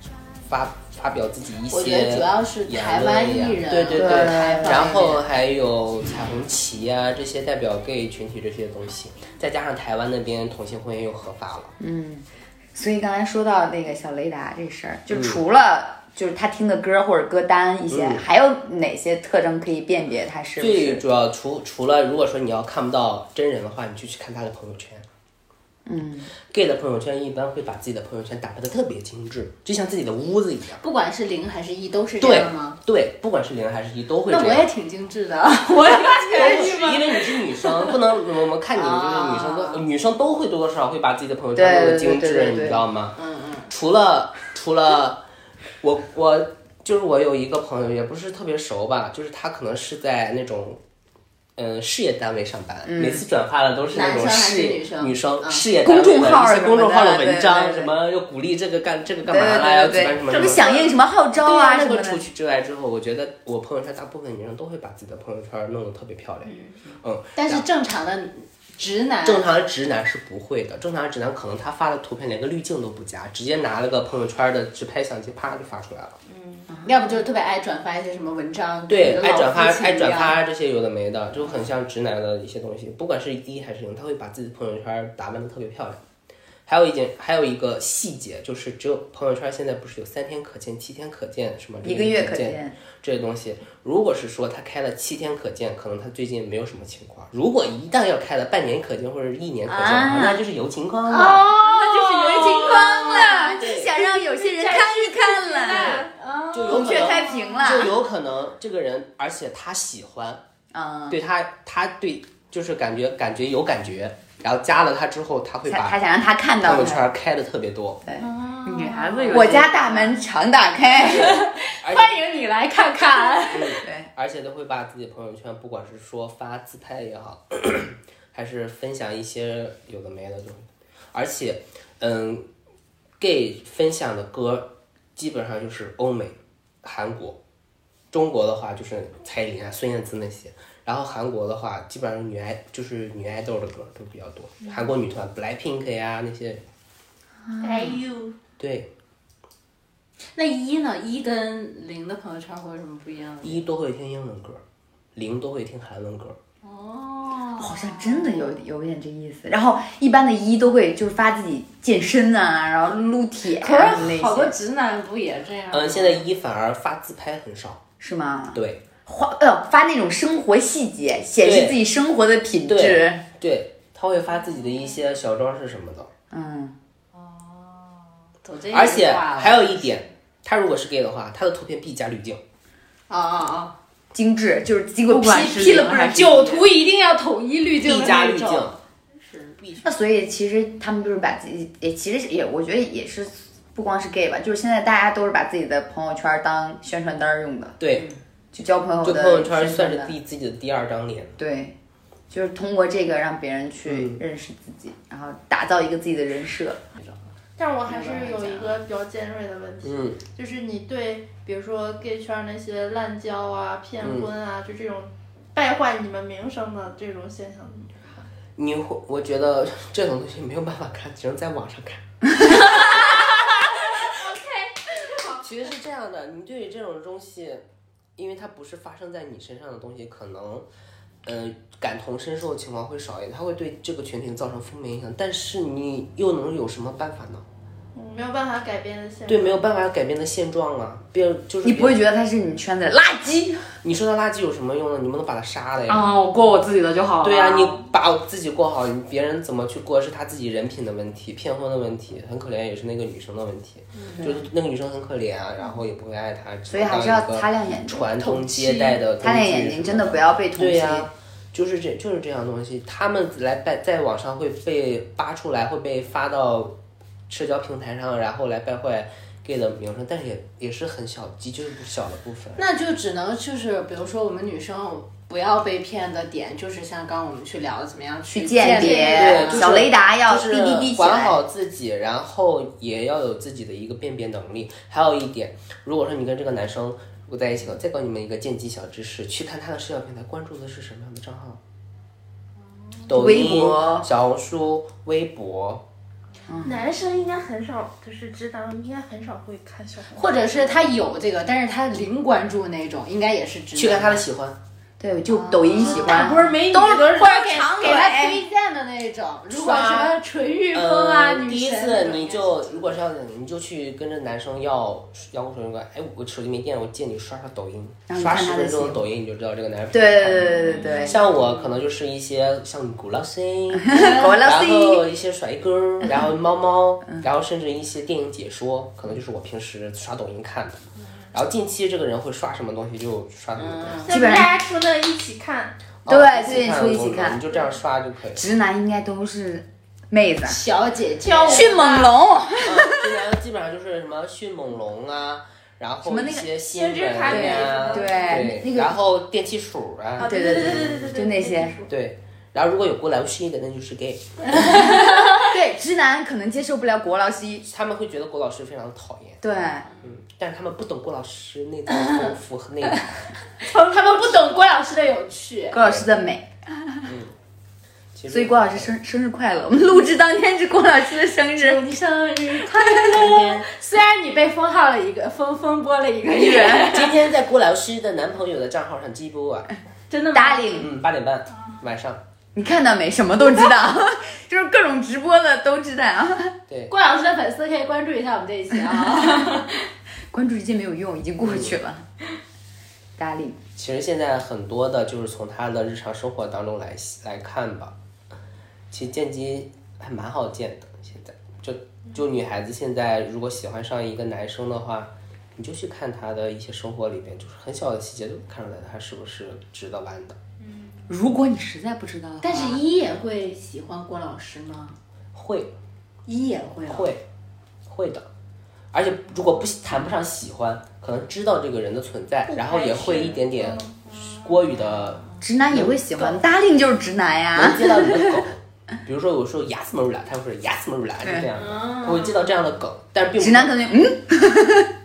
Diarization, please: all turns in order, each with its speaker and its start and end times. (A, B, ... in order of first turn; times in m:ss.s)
0:00.5-0:11.7 A
0:01.7-0:05.2 B
0:03.9-0:05.1 C
0:11.8-0:21.0 C
0:15.1-0:15.4 A
0:17.9-0:18.2 A
0:20.6-0:25.0 A
0:25.8-0:26.3 C
0:26.5-0:30.8 A
0:30.8-0:32.8 B
0:32.2-0:34.7 A
0:34.3-0:37.9 B
0:36.3-0:43.2 A
0:38.7-0:39.8 B
0:41.5-0:42.8 C
0:43.2-0:43.7 B
0:43.7-0:45.2 A
0:45.8-0:50.8 A
0:51.6-1:00.6 A
0:52.8-0:53.2 C
0:53.9-0:55.6 B
0:55.8-0:57.9 C
0:59.2-1:02.2 C
1:00.4-1:00.9 D
1:01.4-1:07.6 A
1:07.3-1:09.5 B
1:09.2-1:16.2 A
1:16.3-1:16.7 D
1:16.7-1:17.0 C
1:16.8-1:20.4 B
1:18.9-1:26.0 A
1:26.7-1:41.5 A
1:31.8-1:32.7 C
1:39.6-1:40.4 C
1:41.1-1:47.6 B
1:41.6-1:46.1 C
1:43.6-1:43.9 A
1:45.6-1:46.0 D
1:45.7-1:46.0 A
1:46.5-1:50.4 A
1:46.6-1:48.0 C
1:50.7-1:51.2 C
1:51.1-1:56.0 A
1:55.7-1:57.1 C
1:56.6-1:58.0 A
1:58.2-1:59.6 B
1:58.6-2:00.2 E
1:59.3-2:01.4 C
2:01.0-2:03.8 B
2:01.8-2:02.2 A
2:03.5-2:12.4 A
2:03.8-2:04.1 C
2:13.2-2:17.4 A
2:18.1-2:26.6 A
2:27.4-2:28.0 C
2:27.6-2:28.4 D
2:28.6-2:28.9 A
2:30.3-2:33.6 B
2:33.4-2:34.6 A
2:35.1-2:36.4 A
2:36.6-2:38.5 B
2:37.5-2:44.5 C
2:43.6-2:46.2 B
2:45.7-2:47.8 A
2:48.0-2:53.2 C
2:48.5-2:48.8 A
2:51.4-2:51.8 A
2:52.7-2:56.1 A
2:56.3-2:56.8 C
2:58.4-2:59.8 B
2:58.7-3:02.4 A
3:03.1-3:03.7 B
3:04.1-3:06.6 C
3:05.1-3:08.8 B
3:05.3-3:05.8 E
3:07.8-3:08.8 A
3:09.6-3:09.9 A
3:09.8-3:17.8 C
3:17.8-3:18.1 A
3:18.5-3:20.1 C
3:19.0-3:21.4 A
3:21.4-3:21.8 C
3:22.3-3:26.8 C
3:23.8-3:24.2 A
3:27.6-3:38.2 D
3:27.9-3:28.8 B
3:29.8-3:30.2 A
3:34.0-3:34.3 A
3:38.6-3:42.8 A
3:44.2-3:44.6 D
3:45.3-3:47.6 A
3:48.2-3:50.6 A
3:51.2-3:57.4 A
3:57.9-3:59.6 D
3:59.3-4:02.0 A
4:01.6-4:03.7 C
4:03.8-4:06.1 A
4:05.9-4:07.8 E
4:07.2-4:26.7 A
4:14.2-4:14.5 C
4:16.7-4:21.1 C
4:27.3-4:32.6 A
4:32.6-4:39.7 B
4:38.3-4:41.4 C
4:38.7-4:51.6 A
4:53.1-4:55.8 A
4:53.1-4:54.1 C
4:56.5-4:56.9 C
4:56.6-5:00.8 D
5:00.1-5:04.2 B
5:03.7-5:04.6 A
5:05.0-5:08.4 C
5:05.3-5:12.7 B
5:06.0-5:08.0 D
5:09.5-5:10.1 A
5:10.7-5:34.0 A
5:18.1-5:19.0 C
5:19.9-5:21.2 C
5:23.7-5:25.0 C
5:33.6-5:34.1 B
5:34.0-5:35.8 D
5:34.1-5:34.6 C
5:36.0-5:38.4 A
5:36.0-5:37.5 C
5:38.3-5:40.6 C
5:40.4-5:41.8 B
5:41.2-5:42.1 D
5:41.4-5:43.2 C
5:42.6-5:51.1 A
5:46.0-5:46.5 C
5:46.7-5:48.4 D
5:47.2-5:49.0 C
5:50.2-5:51.8 C
5:50.2-5:51.9 D
5:51.9-5:54.8 A
5:54.5-5:57.6 C
5:54.5-5:55.4 B
5:57.7-6:03.3 A
5:59.4-5:59.9 C
6:03.6-6:05.8 B
6:05.7-6:07.1 C
6:05.8-6:06.0 A
6:07.0-6:07.3 A
6:08.1-6:08.9 A
6:08.3-6:11.8 C
6:11.6-6:17.2 B
6:13.0-6:13.7 A
6:16.3-6:17.0 C
6:16.9-6:19.7 A
6:20.1-6:20.8 B
6:20.3-6:20.9 C
6:20.8-6:22.2 A
6:22.5-6:26.6 C
6:26.7-6:26.9 A
6:26.9-6:29.7 B
6:28.9-6:29.6 C
6:30.3-6:32.0 C
6:31.4-6:31.8 A
6:33.2-6:33.6 C
6:33.8-6:37.9 A
6:38.9-6:50.4 A
6:51.1-6:52.8 C
6:51.7-6:52.4 E
6:52.4-6:55.0 B
6:55.3-6:55.7 A
6:56.3-6:57.1 B
6:56.8-6:57.2 A
6:57.9-6:58.3 A
6:58.9-7:06.2 A
7:02.5-7:04.0 D
7:05.4-7:08.4 C
7:07.5-7:13.8 A
7:11.6-7:12.4 B
7:13.4-7:14.9 C